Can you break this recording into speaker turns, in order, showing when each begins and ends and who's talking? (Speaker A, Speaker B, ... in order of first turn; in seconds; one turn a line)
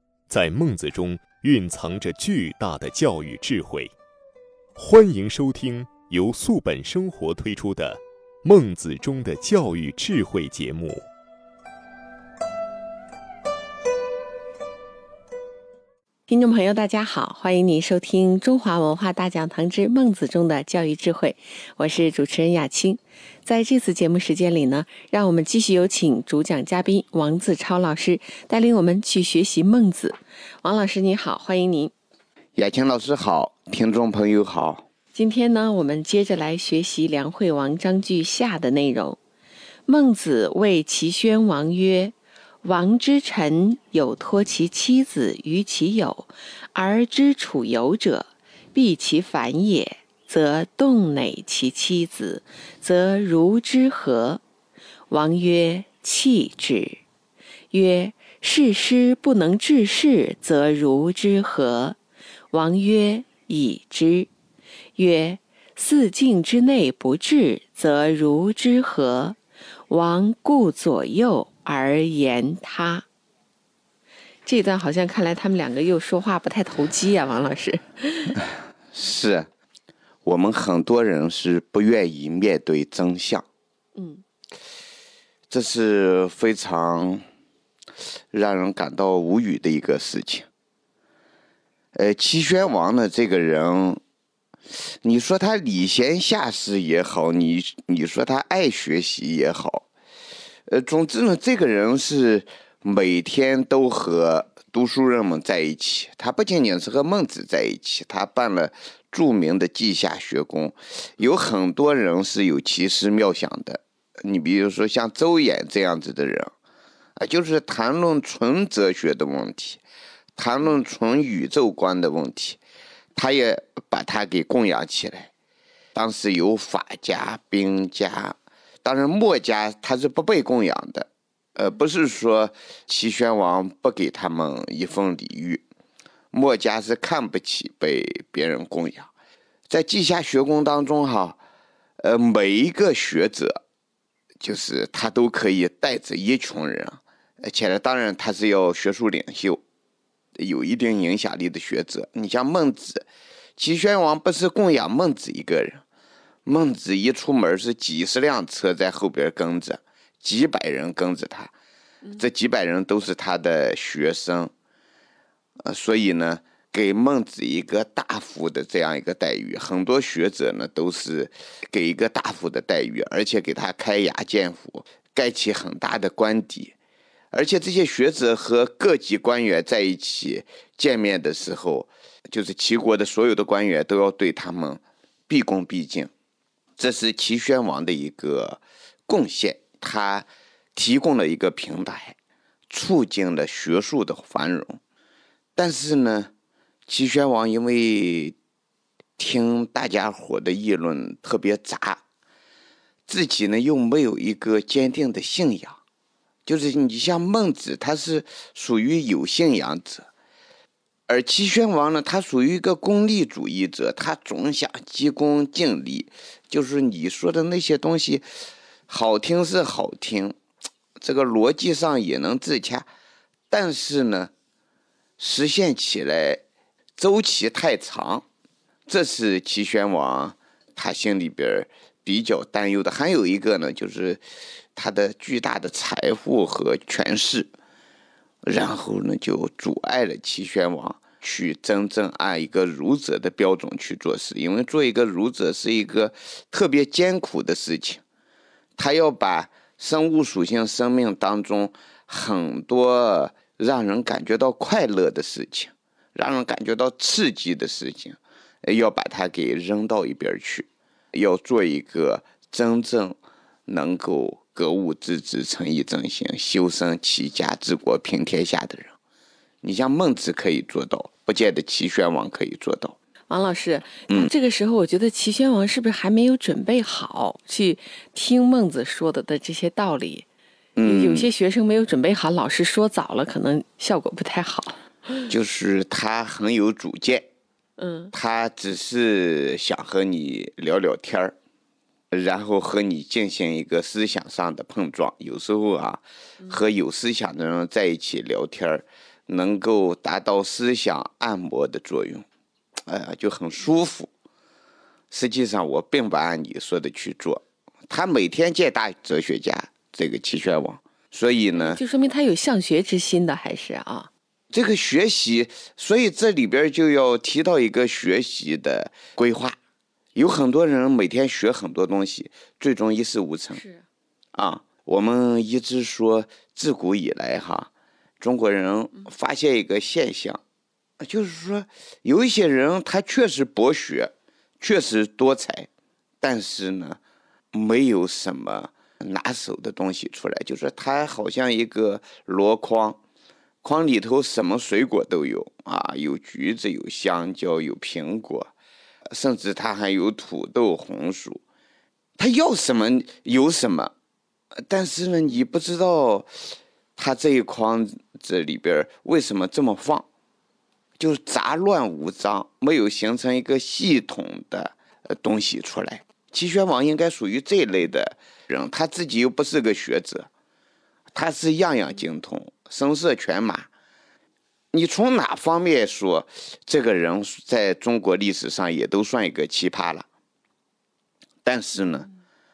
Speaker A: 0.3-3.9
Speaker A: 4.8-11.0
Speaker B: 16.3-31.9
Speaker C: 32.5-34.9
Speaker B: 35.1-39.2
Speaker B: 39.9-54.4
Speaker B: 55.1-57.0
Speaker B: 57.7-62.0
Speaker B: 62.5-64.3
Speaker B: 65.0-69.4
Speaker B: 69.9-73.0
Speaker B: 74.5-78.4
Speaker C: 78.4-79.5
Speaker C: 80.2-83.5
Speaker B: 84.0-84.2
Speaker C: 85.5-87.2
Speaker C: 88.3-90.5
Speaker C: 91.9-94.0
Speaker C: 95.0-99.9
Speaker C: 100.7-116.5
Speaker C: 117.2-119.8
Speaker C: 120.3-122.6
Speaker C: 123.1-125.3
Speaker C: 125.9-135.6
Speaker C: 136.3-139.1
Speaker C: 139.7-141.4
Speaker C: 142.0-143.6
Speaker C: 144.4-149.6
Speaker C: 150.3-155.8
Speaker C: 156.4-161.5
Speaker C: 162.2-164.5
Speaker C: 165.6-176.7
Speaker C: 177.3-186.1
Speaker C: 186.8-192.2
Speaker C: 192.7-194.8
Speaker C: 195.6-196.3
Speaker C: 196.9-198.3
Speaker C: 199.2-202.0
Speaker C: 203.1-205.8
Speaker C: 206.4-210.1
Speaker C: 211.1-218.2
Speaker C: 218.9-220.3
Speaker C: 221.0-222.9
Speaker C: 223.5-224.3
Speaker C: 225.2-226.4
Speaker C: 227.0-228.2
Speaker C: 228.9-234.2
Speaker C: 234.7-237.5
Speaker C: 238.4-248.0
Speaker C: 248.8-268.9
Speaker C: 269.6-272.9
Speaker B: 273.3-280.2
Speaker C: 280.8-281.3
Speaker B: 280.8-285.2
Speaker C: 285.3-287.3
Speaker B: 287.8-288.1
Speaker C: 288.1-291.3
Speaker C: 292.1-302.2
Speaker C: 302.9-304.1
Speaker C: 305.1-311.8
Speaker B: 311.6-314.1
Speaker C: 314.5-319.6
Speaker C: 320.1-323.6
Speaker B: 323.6-323.8
Speaker C: 324.3-327.7
Speaker C: 328.2-330.4
Speaker C: 331.0-335.7
Speaker C: 336.2-337.0
Speaker C: 337.5-343.0
Speaker C: 343.6-348.5
Speaker C: 349.1-351.4
Speaker C: 352.2-353.9
Speaker C: 354.6-360.1
Speaker C: 361.0-370.3
Speaker C: 371.1-373.7
Speaker C: 374.7-380.1
Speaker C: 381.4-382.1